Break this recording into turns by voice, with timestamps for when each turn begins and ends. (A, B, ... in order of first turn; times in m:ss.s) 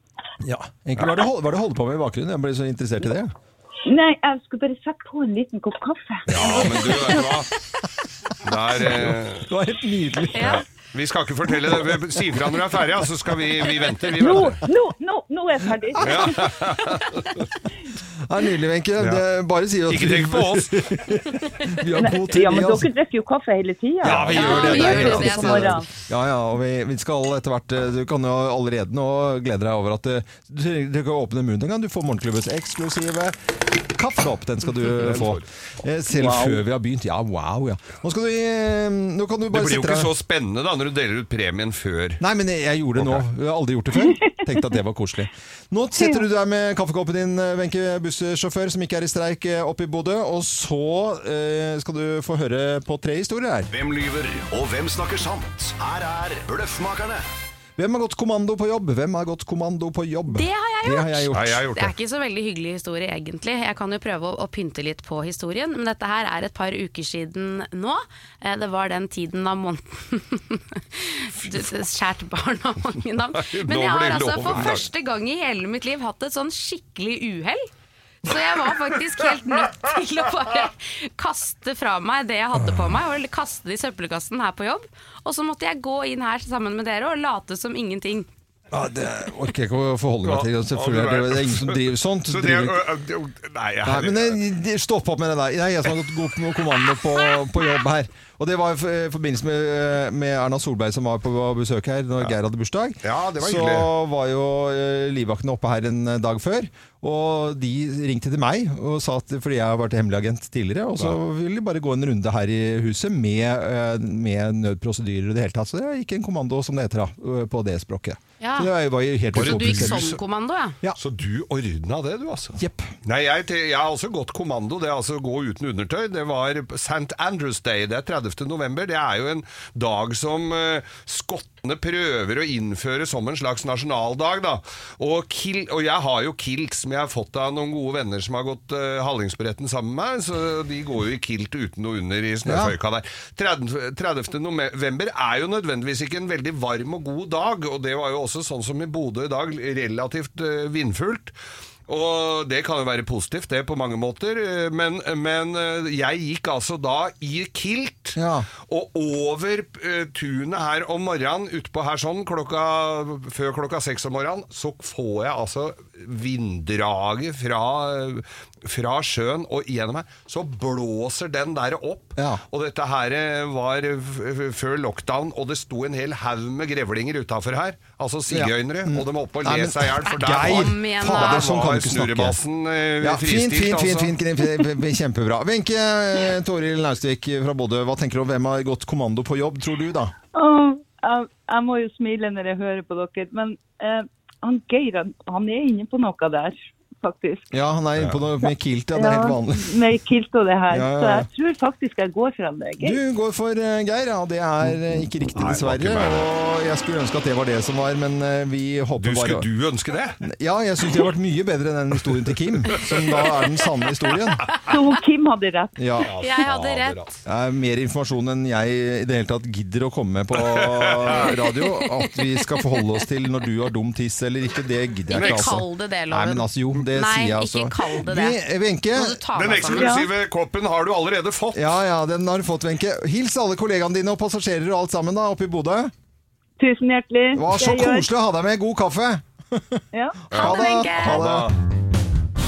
0:00.4-0:03.3 A
0:03.8-0:07.3 B
0:06.3-0:07.5 C
0:06.4-0:07.0 A
0:08.4-0:09.5 C
0:08.7-0:10.6 A
0:10.4-0:10.6 D
0:10.4-0:14.6 C
0:11.7-0:12.0 A
0:14.2-0:16.5 B
0:16.0-0:17.4 C
0:16.1-0:16.3 A
0:18.2-0:22.9 A
0:19.9-0:21.1 C
0:22.0-0:25.9 B
0:24.0-0:25.7 C
0:24.0-0:33.4 A
0:24.3-0:25.7 D
0:33.9-0:40.1 A
0:34.9-0:35.5 C
0:39.5-0:42.2 C
0:42.2-0:53.7 A
0:43.0-0:43.2 C
0:44.0-0:44.3 B
0:53.7-0:57.2 E
0:57.8-1:01.6 A
1:00.3-1:17.7 D
1:01.3-1:01.9 C
1:13.4-1:14.8 C
1:18.2-1:28.3 D
1:28.7-1:32.8 A
1:30.2-1:34.4 C
1:33.8-2:00.1 A
1:43.0-1:43.9 C
1:58.4-1:58.7 D
1:59.3-2:00.8 D
1:59.3-2:00.2 C
2:01.0-2:31.4 C
2:02.6-2:02.9 A
2:22.4-2:22.7 A
2:31.9-3:04.1 C
2:38.2-2:38.5 A
2:52.2-2:52.4 A
2:58.3-3:02.4 A
3:00.1-3:01.5 D
3:03.0-3:10.1 A
3:10.3-3:17.5 B
3:17.5-3:19.8 A
3:19.0-3:23.0 B
3:20.7-3:21.3 A
3:22.8-3:29.5 A
3:25.4-3:26.3 C
3:29.0-3:30.2 C
3:30.2-3:34.5 A
3:32.7-3:33.4 C
3:34.7-3:35.8 B
3:35.8-3:36.1 A
3:36.0-3:37.2 C
3:36.2-3:37.0 D
3:37.2-3:49.2 A
3:40.4-3:41.3 C
3:45.1-3:48.4 D
3:45.2-3:45.6 C
3:48.9-3:50.0 D
3:49.4-3:51.8 C
3:49.7-3:50.1 B
3:51.5-3:55.9 A
3:56.6-3:58.1 B
3:57.3-4:01.5 A
3:59.9-4:00.2 B
4:00.3-4:01.2 D
4:00.3-4:01.6 C